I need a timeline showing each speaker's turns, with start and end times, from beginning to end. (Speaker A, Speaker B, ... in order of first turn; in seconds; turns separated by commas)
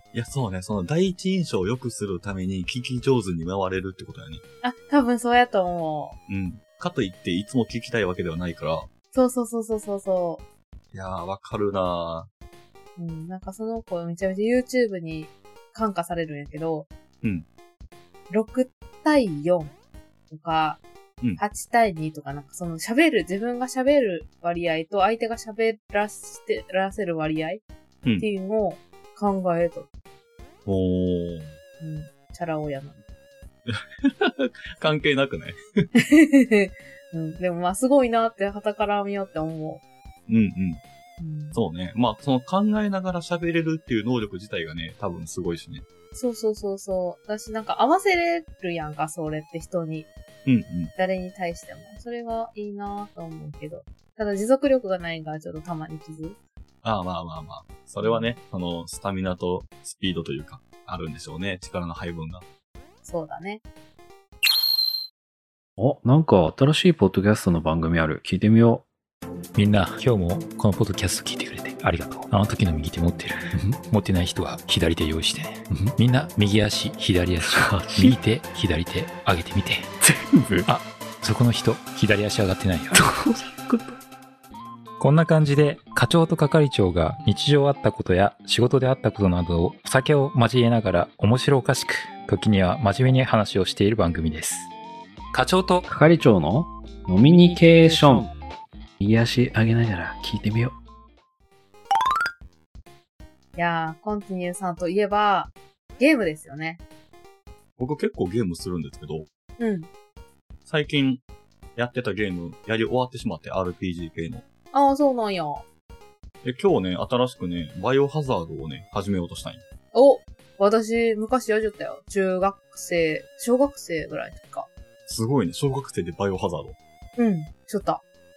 Speaker A: 0.1-4.4, Speaker B: 4.6-6.2, Speaker A: 6.3-8.9, Speaker B: 9.1-10.4, Speaker A: 10.9-12.3, Speaker B: 13.0-16.9, Speaker B: 18.3-19.7, Speaker B: 20.3-20.8, Speaker B: 21.4-27.6, Speaker B: 28.2-29.9, Speaker A: 30.6-31.6, Speaker B: 31.8-33.0, Speaker A: 33.7-35.9, Speaker B: 35.9-39.8, Speaker A: 40.3-40.8, Speaker B: 41.2-41.6, Speaker A: 41.5-45.8, Speaker B: 46.1-50.1, Speaker A: 50.4-50.9, Speaker B: 50.9-56.4, Speaker A: 56.8-62.4, Speaker B: 58.0-58.3, Speaker B: 63.0-63.6, Speaker C: 65.8-68.8, Speaker D: 69.5-80.0, Speaker C: 77.4-78.2, Speaker C: 80.0-80.7, Speaker D: 80.7-83.0, Speaker C: 82.9-84.0, Speaker D: 85.0-94.7, Speaker D: 95.3-95.9, Speaker C: 95.9-98.3, Speaker C: 99.0-100.8, Speaker B: 103.5-106.8, Speaker A: 107.8-109.3, Speaker B: 109.6-109.9, Speaker A: 110.7-111.2, Speaker A: 111.8-114.4, Speaker B: 114.7-115.6, Speaker A: 116.4-119.6, Speaker B: 119.9-124.7, Speaker A: 125.1-126.8, Speaker B: 127.2-128.0